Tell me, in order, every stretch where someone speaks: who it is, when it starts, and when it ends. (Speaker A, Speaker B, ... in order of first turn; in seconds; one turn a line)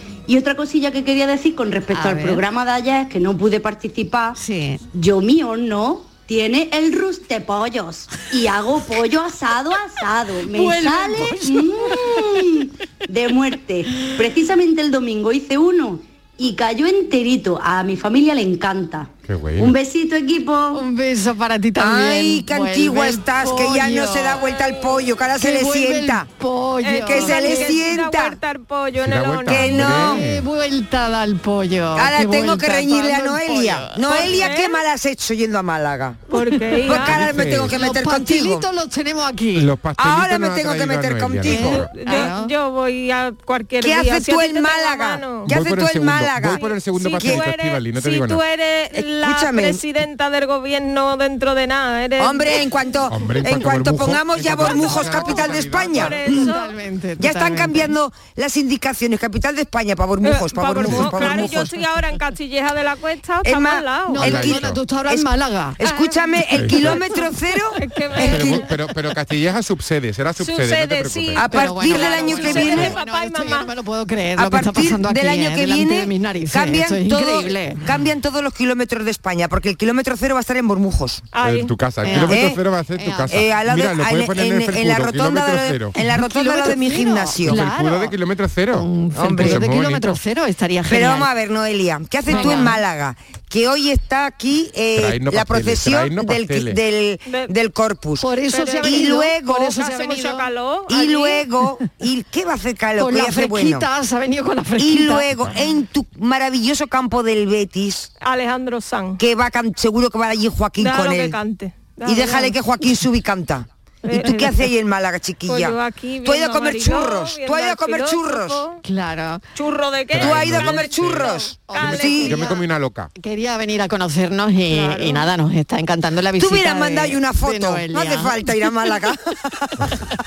Speaker A: 0.3-4.4
Speaker B: 1.9-2.4
Speaker B: 4.4-4.8
Speaker A: 4.9-20.8
Speaker B: 10.5-12.2
Speaker C: 19.3-19.8
Speaker B: 20.7-24.4
Speaker D: 21.8-26.3
Speaker B: 25.4-27.8
Speaker E: 26.8-30.1
Speaker D: 27.0-28.4
Speaker C: 29.0-30.5
Speaker D: 29.5-30.2
Speaker B: 29.9-34.4
Speaker D: 32.0-36.2
Speaker E: 34.1-34.8
Speaker E: 36.3-37.3
Speaker B: 36.3-37.0
Speaker D: 36.9-38.7
Speaker C: 36.9-37.8
Speaker B: 37.7-39.7
Speaker C: 39.5-41.9
Speaker D: 40.0-41.9
Speaker B: 41.4-42.5
Speaker E: 41.9-45.5
Speaker D: 43.8-46.6
Speaker C: 45.5-48.4
Speaker E: 46.6-52.7
Speaker D: 47.2-47.5
Speaker D: 49.0-49.8
Speaker D: 52.2-56.5
Speaker C: 53.1-56.2
Speaker E: 54.6-56.7
Speaker B: 56.2-57.9
Speaker D: 57.2-61.7
Speaker E: 60.2-64.3
Speaker C: 60.8-61.5
Speaker D: 63.4-68.7
Speaker B: 64.1-65.8
Speaker C: 64.2-64.8
Speaker E: 65.9-66.2
Speaker C: 66.5-67.0
Speaker E: 67.8-68.6
Speaker C: 68.2-71.4
Speaker E: 70.4-73.7
Speaker D: 71.4-73.0
Speaker B: 71.4-77.8
Speaker D: 74.4-81.2
Speaker E: 81.3-81.7
Speaker C: 81.4-86.0
Speaker B: 82.0-83.4
Speaker D: 82.2-82.6
Speaker D: 83.3-87.6
Speaker B: 86.0-88.2
Speaker C: 87.4-90.2
Speaker B: 88.7-91.3
Speaker D: 89.2-89.6
Speaker D: 90.9-99.7
Speaker B: 92.3-92.8
Speaker C: 95.0-96.8
Speaker E: 97.2-97.5
Speaker B: 98.2-100.5
Speaker E: 98.5-101.4
Speaker D: 100.9-103.9
Speaker B: 103.0-105.3
Speaker D: 104.8-108.1
Speaker E: 108.2-109.2
Speaker D: 109.2-111.4
Speaker E: 110.8-112.6
Speaker D: 112.0-118.6
Speaker E: 114.1-114.7
Speaker E: 115.5-118.8
Speaker B: 118.8-119.4
Speaker E: 119.5-122.5
Speaker C: 120.1-123.1
Speaker D: 120.1-122.4
Speaker B: 121.7-122.6
Speaker B: 123.2-128.4
Speaker E: 124.7-125.3
Speaker D: 126.4-129.9